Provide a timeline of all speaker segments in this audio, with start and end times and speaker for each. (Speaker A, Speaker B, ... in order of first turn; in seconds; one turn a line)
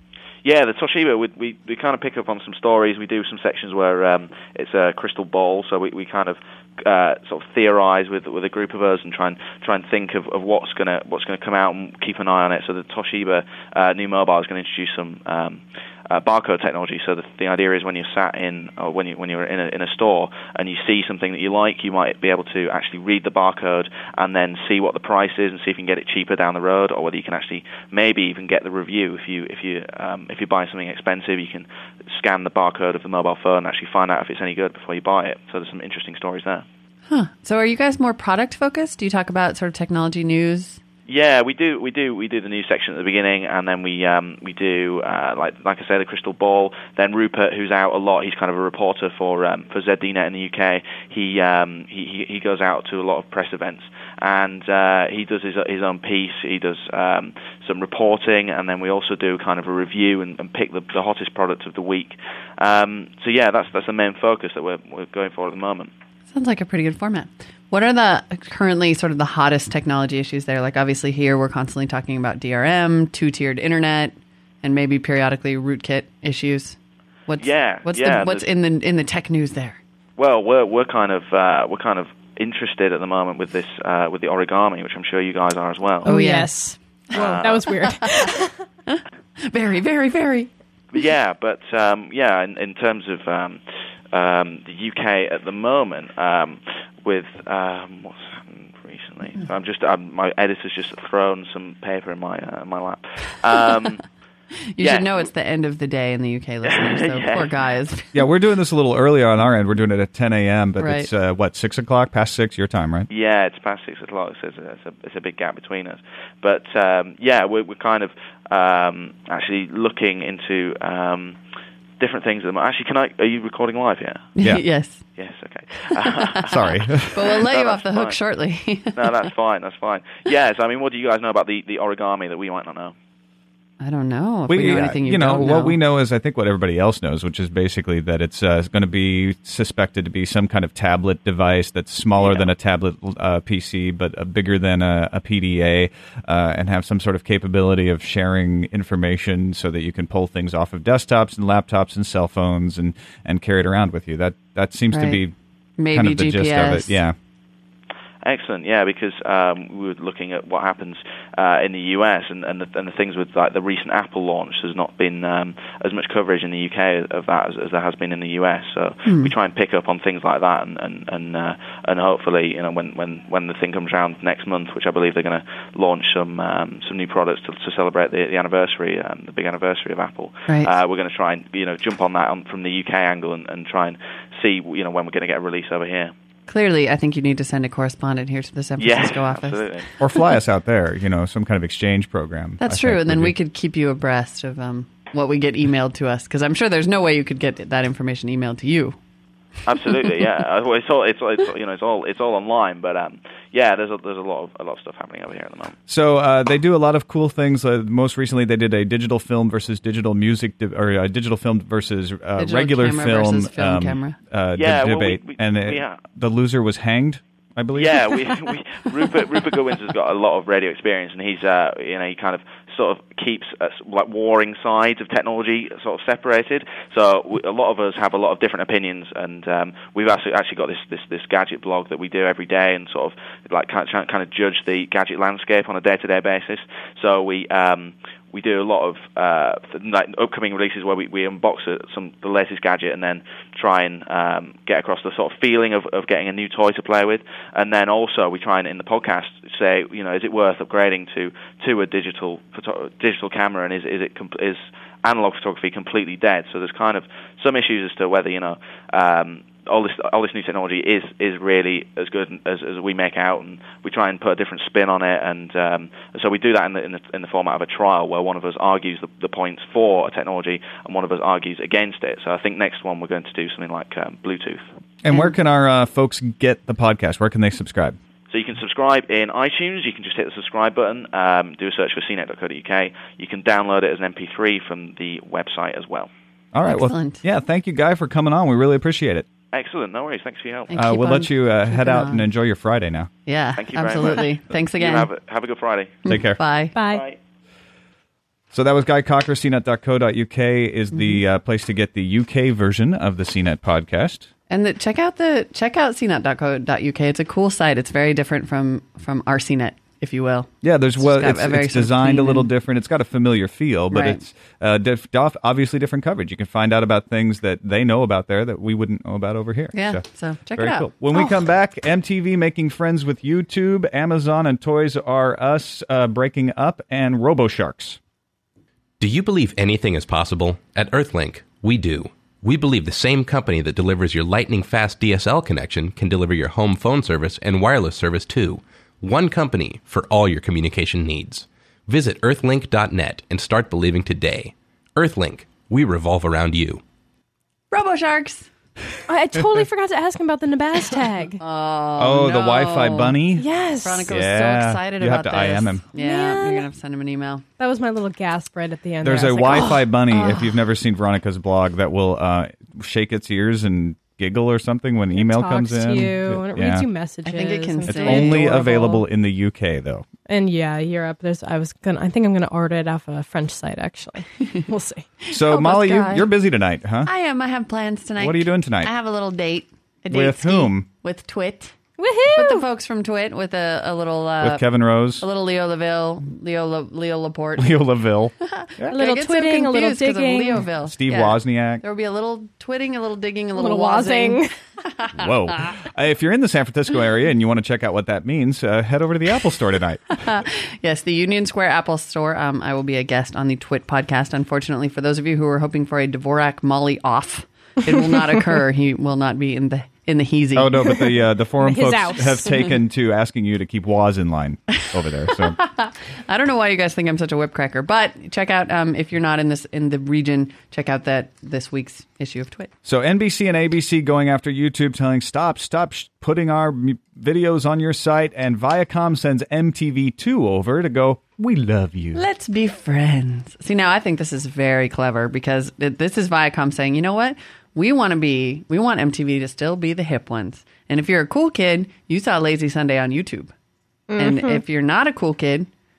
Speaker A: 0.4-36.6
Speaker B: 37.1-40.8
Speaker A: 41.1-65.9
Speaker B: 66.3-79.8
Speaker A: 77.4-78.5
Speaker A: 80.2-86.1
Speaker C: 86.0-88.5
Speaker B: 86.1-86.5
Speaker A: 87.1-87.7
Speaker B: 87.8-88.3
Speaker B: 88.9-90.5
Speaker A: 90.9-93.6
Speaker A: 94.1-104.0
Speaker B: 104.7-108.2
Speaker A: 104.8-105.2
Speaker A: 106.7-107.5
Speaker D: 108.1-113.1
Speaker B: 110.8-111.1
Speaker A: 113.1-121.4
Speaker A: 122.0-124.3
Speaker B: 124.4-125.0
Speaker A: 125.2-128.2
Speaker B: 125.9-129.3
Speaker D: 126.5-127.3
Speaker A: 129.0-132.9
Speaker B: 133.8-135.8
Speaker D: 134.5-155.3
Speaker B: 154.9-155.2
Speaker B: 155.8-157.0
Speaker D: 155.9-157.2
Speaker A: 158.2-186.1
Speaker B: 169.1-169.3
Speaker B: 186.5-189.6
Speaker A: 188.8-189.9
Speaker D: 190.0-193.3
Speaker B: 192.6-199.0
Speaker A: 199.7-205.8
Speaker D: 205.9-218.2
Speaker B: 212.4-214.2
Speaker A: 214.6-216.0
Speaker A: 217.7-274.6
Speaker D: 275.0-278.0
Speaker A: 278.3-286.1
Speaker D: 286.5-289.3
Speaker B: 286.6-287.2
Speaker A: 289.5-290.7
Speaker B: 290.7-292.3
Speaker D: 290.8-293.1
Speaker B: 293.3-295.1
Speaker A: 293.6-296.0
Speaker B: 296.1-296.8
Speaker D: 296.1-296.4
Speaker C: 296.8-297.1
Speaker A: 296.9-297.2
Speaker D: 298.5-304.3
Speaker B: 300.9-301.2
Speaker B: 304.5-312.5
Speaker D: 310.6-328.0
Speaker B: 313.9-314.2
Speaker B: 319.7-320.9
Speaker E: 329.0-346.8
Speaker B: 347.7-348.5
Speaker C: 349.1-351.4
Speaker B: 351.4-353.2
Speaker D: 352.0-353.5
Speaker C: 353.4-354.1
Speaker B: 353.8-357.4
Speaker D: 354.1-355.9
Speaker C: 355.9-356.7
Speaker C: 357.6-359.9
Speaker D: 359.0-366.9
Speaker B: 359.6-360.6
Speaker C: 365.2-369.0
Speaker B: 367.2-369.0
Speaker D: 367.9-370.1
Speaker C: 370.3-375.1
Speaker B: 375.2-376.3
Speaker D: 375.3-377.1
Speaker B: 377.1-381.7
Speaker D: 378.2-378.9
Speaker D: 380.1-380.9
Speaker C: 382.0-382.7
Speaker B: 382.3-384.6
Speaker D: 384.4-385.3
Speaker B: 385.2-387.9
Speaker D: 387.6-388.9
Speaker B: 388.4-395.7
Speaker C: 388.9-390.7
Speaker D: 390.9-391.8
Speaker C: 393.6-394.5
Speaker D: 395.2-400.3
Speaker B: 400.2-411.1
Speaker D: 410.6-415.6
Speaker C: 411.6-412.6
Speaker B: 414.8-422.7
Speaker D: 422.8-432.2
Speaker B: 432.1-443.5
Speaker C: 444.1-444.6
Speaker B: 444.2-445.7